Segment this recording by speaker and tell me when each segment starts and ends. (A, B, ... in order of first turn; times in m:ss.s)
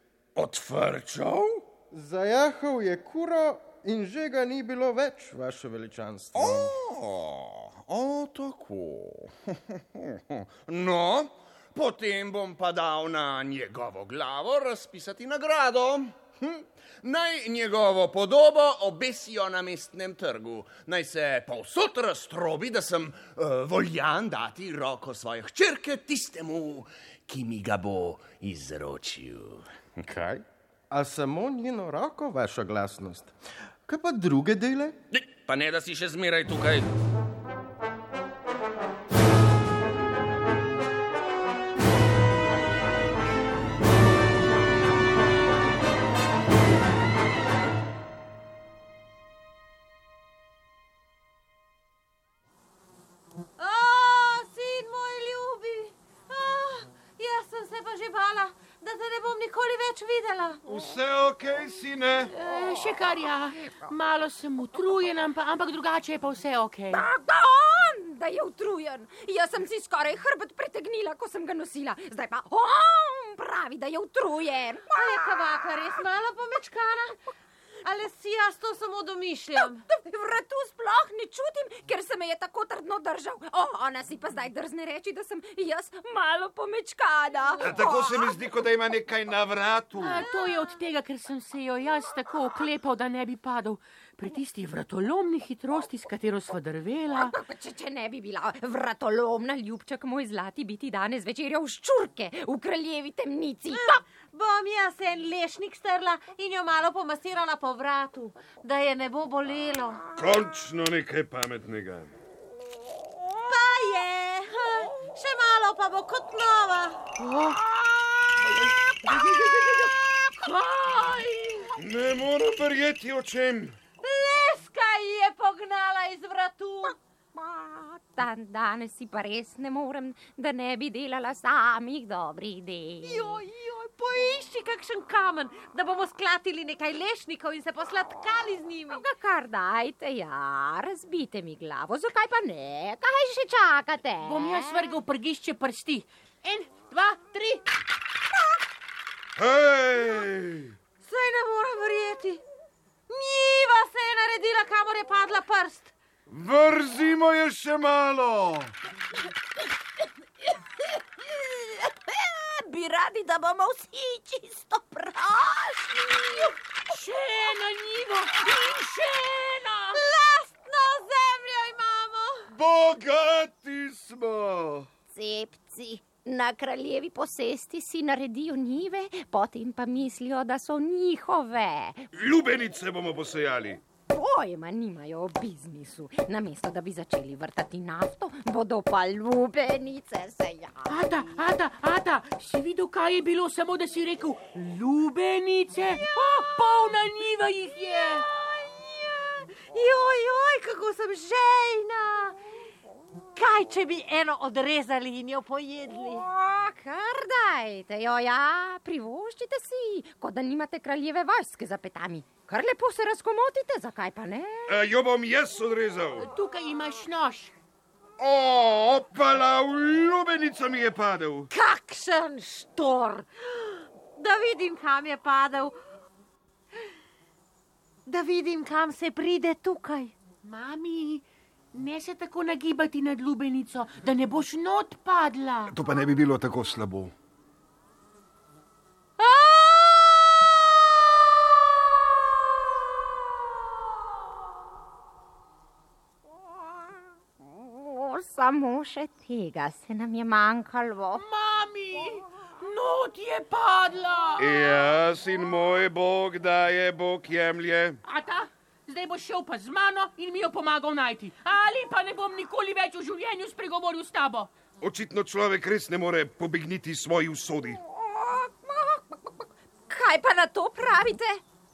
0:00.4-0:01.6 A
0:01.9-0:06.8 B
0:06.3-0:29.7 A
0:30.0-0:33.3 B
0:33.8-0:35.0 B
0:35.1-0:36.9 A
0:53.6-1:00.6 C
1:00.6-1:02.3 D
1:02.3-1:07.0 E
1:06.9-1:14.9 F
1:14.9-1:17.2 C
1:17.8-1:19.8 C
1:19.6-1:28.4 F
1:27.6-1:30.2 D
1:30.0-1:37.3 E
1:37.2-1:44.0 F
1:43.7-1:50.0 C
1:50.2-1:52.1 D
1:53.5-1:57.0 C
1:57.2-1:57.6 E
1:58.6-2:01.7 E
2:01.8-2:03.8 D
2:04.0-2:06.9 C
2:07.3-2:13.3 F
2:13.0-2:19.0 C
2:18.9-2:24.8 F
2:24.2-2:27.7 E
2:29.4-2:30.7 D
2:31.0-2:32.4 C
2:33.1-2:35.9 C
2:36.3-2:38.7 D
2:41.2-2:46.5 F
2:46.9-2:50.0 E
2:49.9-2:52.5 C
2:52.5-2:54.9 D
2:55.1-3:02.1 F
3:02.1-3:03.8 D
3:04.1-3:11.0 F
3:10.9-3:18.3 E
3:18.4-3:22.4 C
3:23.4-3:26.2 C
3:26.2-3:34.7 F
3:34.7-3:36.3 D
3:36.2-3:37.5 E
3:38.2-3:41.5 D
3:41.5-3:43.3 C
3:44.2-3:45.8 C
3:48.0-3:50.1 C
3:50.4-3:55.7 E
3:55.7-3:57.1 D
3:59.2-4:00.0 C
4:07.5-4:11.2 F
4:11.1-4:14.6 E
4:14.4-4:18.0 D
4:18.0-4:24.5 E
4:24.8-4:27.8 D
4:27.9-4:31.4 F